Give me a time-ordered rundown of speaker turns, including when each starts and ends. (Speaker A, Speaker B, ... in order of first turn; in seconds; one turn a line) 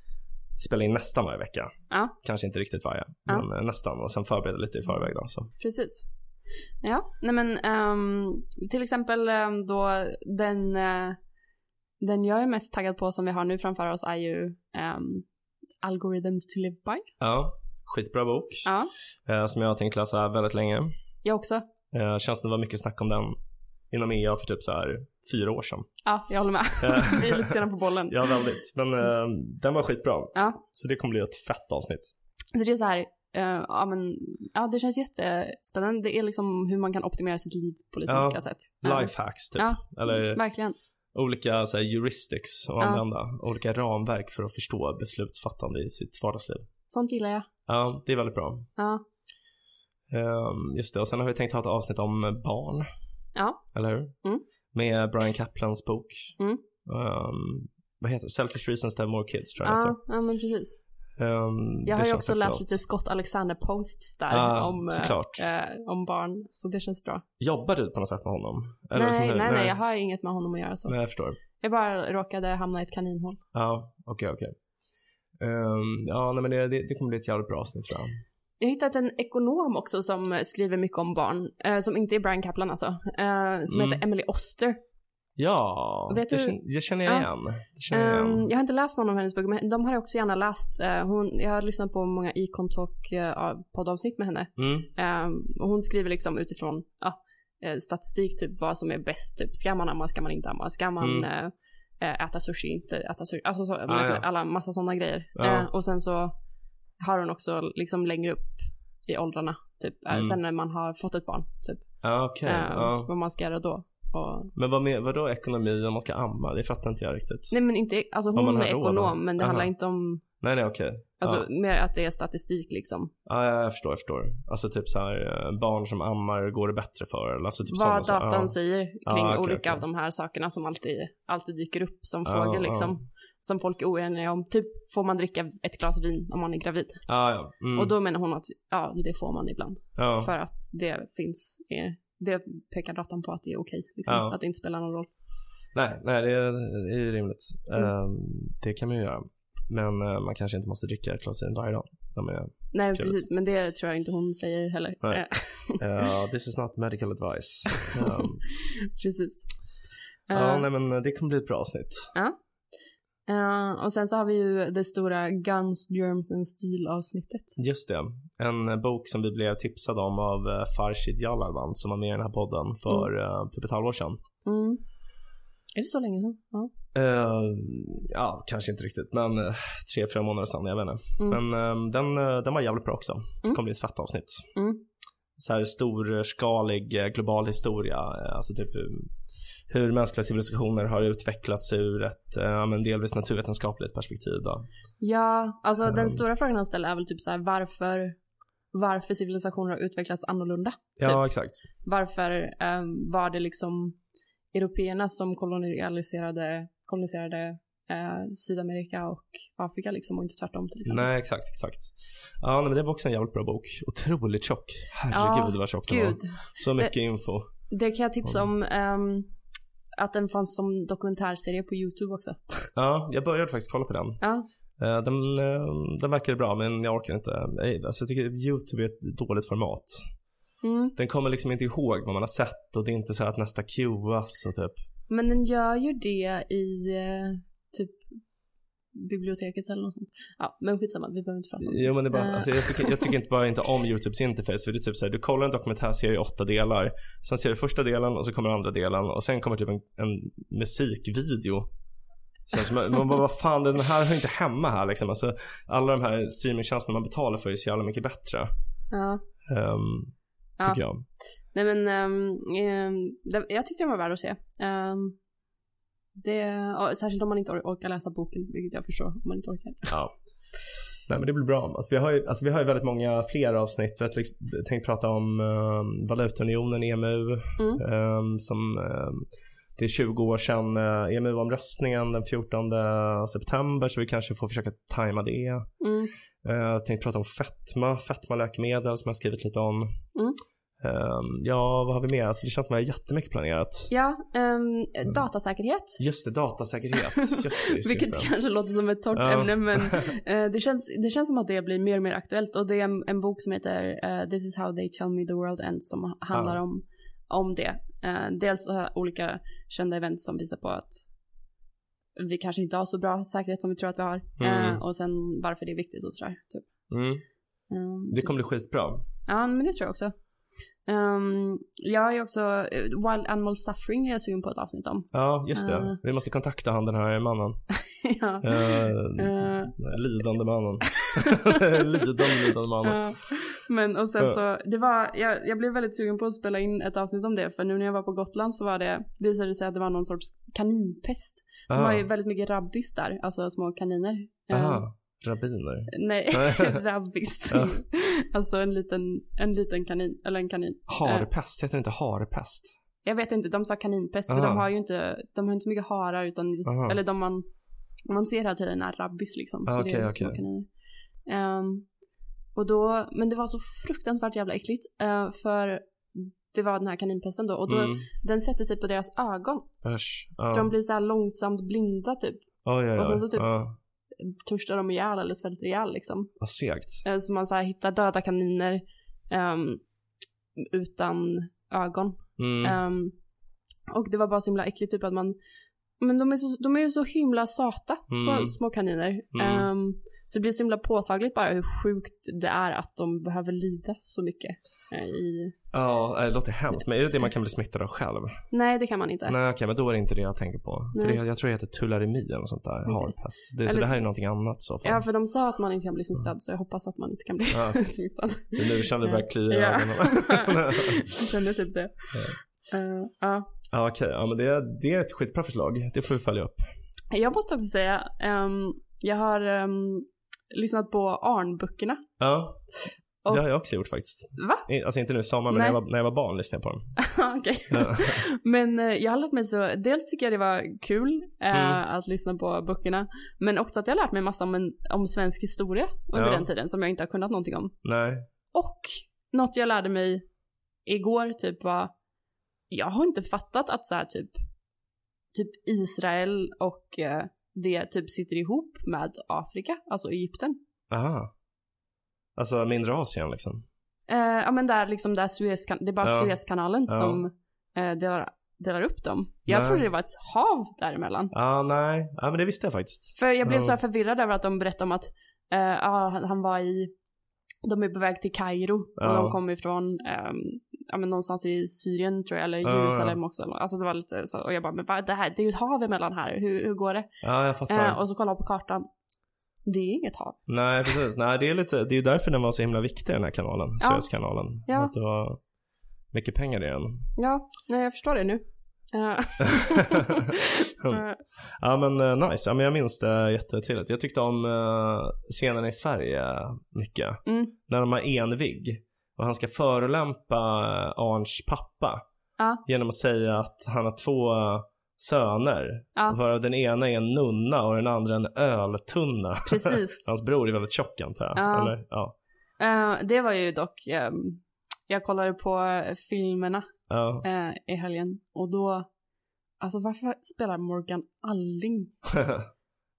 Speaker A: 0.6-5.5
Speaker B: 1.9-2.1
Speaker B: 5.6-6.1
Speaker B: 6.8-11.2
Speaker B: 12.0-15.2
Speaker B: 15.8-17.1
Speaker A: 17.2-18.7
Speaker B: 18.6-18.9
Speaker A: 19.2-20.9
Speaker B: 21.2-21.6
Speaker A: 21.9-23.4
Speaker A: 23.9-25.9
Speaker B: 26.0-28.4
Speaker A: 26.8-27.6
Speaker A: 28.1-32.1
Speaker B: 30.3-30.6
Speaker B: 32.5-40.8
Speaker A: 38.1-40.4
Speaker A: 41.1-46.7
Speaker B: 42.8-43.0
Speaker B: 46.9-47.5
Speaker A: 47.7-48.7
Speaker B: 48.8-49.0
Speaker A: 50.1-52.9
Speaker B: 53.4-53.6
Speaker A: 53.7-54.1
Speaker A: 54.7-60.0
Speaker B: 59.6-60.8
Speaker A: 61.2-62.7
Speaker B: 61.9-67.2
Speaker A: 64.3-65.4
Speaker A: 67.4-69.8
Speaker B: 68.9-70.9
Speaker A: 70.9-71.4
Speaker B: 71.5-73.4
Speaker A: 73.5-74.6
Speaker A: 75.4-78.2
Speaker B: 78.6-84.8
Speaker A: 83.7-84.0
Speaker A: 85.4-88.5
Speaker B: 86.1-87.3
Speaker B: 87.9-106.3
Speaker A: 94.6-94.9
Speaker A: 101.0-101.3
Speaker A: 103.9-104.2
Speaker A: 105.4-105.7
Speaker B: 107.0-111.9
Speaker A: 110.1-110.4
Speaker A: 112.0-113.1
Speaker B: 112.4-114.5
Speaker A: 114.5-117.5
Speaker B: 117.5-120.2
Speaker A: 118.3-119.7
Speaker A: 120.4-121.5
Speaker B: 121.2-123.1
Speaker A: 123.2-129.8
Speaker B: 127.7-137.1
Speaker A: 132.2-132.9
Speaker A: 137.1-137.9
Speaker B: 137.7-145.1
Speaker A: 139.9-140.3
Speaker A: 144.1-144.4
Speaker A: 145.7-153.2
Speaker B: 152.7-155.8
Speaker A: 155.0-158.4
Speaker B: 158.0-159.5
Speaker B: 160.3-160.7
Speaker A: 160.3-162.1
Speaker B: 163.3-167.6
Speaker A: 167.6-174.2
Speaker B: 174.4-174.8
Speaker B: 175.7-176.7
Speaker A: 176.9-184.5
Speaker B: 184.6-184.8
Speaker A: 185.4-189.1
Speaker A: 189.7-194.7
Speaker B: 195.0-198.2
Speaker A: 195.8-196.2
Speaker B: 198.7-201.2
Speaker A: 201.0-201.6
Speaker B: 201.8-204.0
Speaker B: 204.5-211.1
Speaker A: 210.9-217.5
Speaker B: 215.1-216.9
Speaker B: 217.7-219.3
Speaker B: 219.9-222.7
Speaker A: 222.7-224.2
Speaker B: 224.2-224.4
Speaker A: 224.8-230.1
Speaker B: 230.6-230.9
Speaker A: 230.9-234.8
Speaker B: 235.1-238.0
Speaker B: 238.9-243.1
Speaker A: 241.6-251.7
Speaker A: 252.4-258.5
Speaker B: 258.9-259.2
Speaker A: 259.5-261.1
Speaker B: 261.5-265.2
Speaker B: 266.1-269.9
Speaker A: 269.9-270.1
Speaker A: 271.1-285.7
Speaker B: 285.8-286.1
Speaker A: 286.4-290.0
Speaker A: 290.8-293.9
Speaker B: 293.9-296.0
Speaker A: 296.0-298.3
Speaker B: 296.9-311.0
Speaker A: 299.1-300.1
Speaker A: 306.3-306.6
Speaker B: 312.1-316.7
Speaker A: 314.4-314.8
Speaker A: 316.9-317.2
Speaker B: 317.7-318.3
Speaker A: 318.1-319.0
Speaker B: 319.2-320.1
Speaker B: 320.9-326.0
Speaker A: 325.1-327.6
Speaker B: 327.9-329.7
Speaker A: 328.4-333.1
Speaker B: 332.8-344.8
Speaker A: 341.7-342.1
Speaker A: 344.5-346.8
Speaker B: 345.9-351.3
Speaker A: 347.5-347.7
Speaker A: 350.9-352.7
Speaker B: 353.0-357.4
Speaker A: 354.3-354.7
Speaker A: 356.6-357.0
Speaker B: 358.1-360.7
Speaker A: 359.6-360.4
Speaker B: 361.2-361.9
Speaker B: 362.6-369.7
Speaker A: 367.7-368.1
Speaker A: 369.8-370.7
Speaker B: 370.4-373.5
Speaker A: 372.6-373.8
Speaker B: 374.2-376.3
Speaker A: 376.4-377.0
Speaker B: 377.0-379.8
Speaker B: 380.6-383.1
Speaker A: 382.4-382.8
Speaker B: 383.9-385.4
Speaker B: 386.0-395.6
Speaker A: 388.1-388.6
Speaker A: 389.3-389.7
Speaker A: 395.7-398.4
Speaker B: 398.5-399.4
Speaker A: 399.2-405.0
Speaker B: 400.9-401.2
Speaker B: 402.9-403.1
Speaker B: 403.6-403.9
Speaker B: 404.8-413.5
Speaker A: 407.5-407.8
Speaker A: 408.5-411.0
Speaker A: 413.7-416.7
Speaker B: 417.1-422.0
Speaker A: 422.2-422.6
Speaker A: 423.3-426.9
Speaker B: 424.4-424.6
Speaker B: 425.5-425.8
Speaker B: 427.0-437.7
Speaker A: 427.7-428.2
Speaker A: 431.5-431.8
Speaker A: 436.1-436.5
Speaker A: 437.8-438.3
Speaker B: 438.5-440.2
Speaker B: 440.9-441.9
Speaker B: 442.7-444.4
Speaker B: 445.3-450.6
Speaker A: 450.9-451.3
Speaker A: 452.4-453.6
Speaker B: 454.1-461.3
Speaker A: 456.0-457.2
Speaker A: 459.5-459.9
Speaker A: 461.3-463.8
Speaker B: 463.1-466.9
Speaker B: 467.6-477.1
Speaker A: 469.0-469.4
Speaker A: 472.6-473.2
Speaker A: 477.2-478.0
Speaker B: 477.7-478.9
Speaker B: 479.6-480.4
Speaker A: 480.5-485.4
Speaker B: 483.8-484.1
Speaker B: 484.6-484.9
Speaker A: 486.1-487.1
Speaker B: 487.2-490.4
Speaker A: 489.4-502.0
Speaker B: 490.9-491.2
Speaker B: 497.3-497.5
Speaker A: 502.6-512.1
Speaker B: 509.4-510.1
Speaker B: 511.3-511.7
Speaker B: 512.6-516.7
Speaker A: 516.9-517.3
Speaker B: 517.2-518.9
Speaker B: 519.6-522.0
Speaker A: 522.1-522.5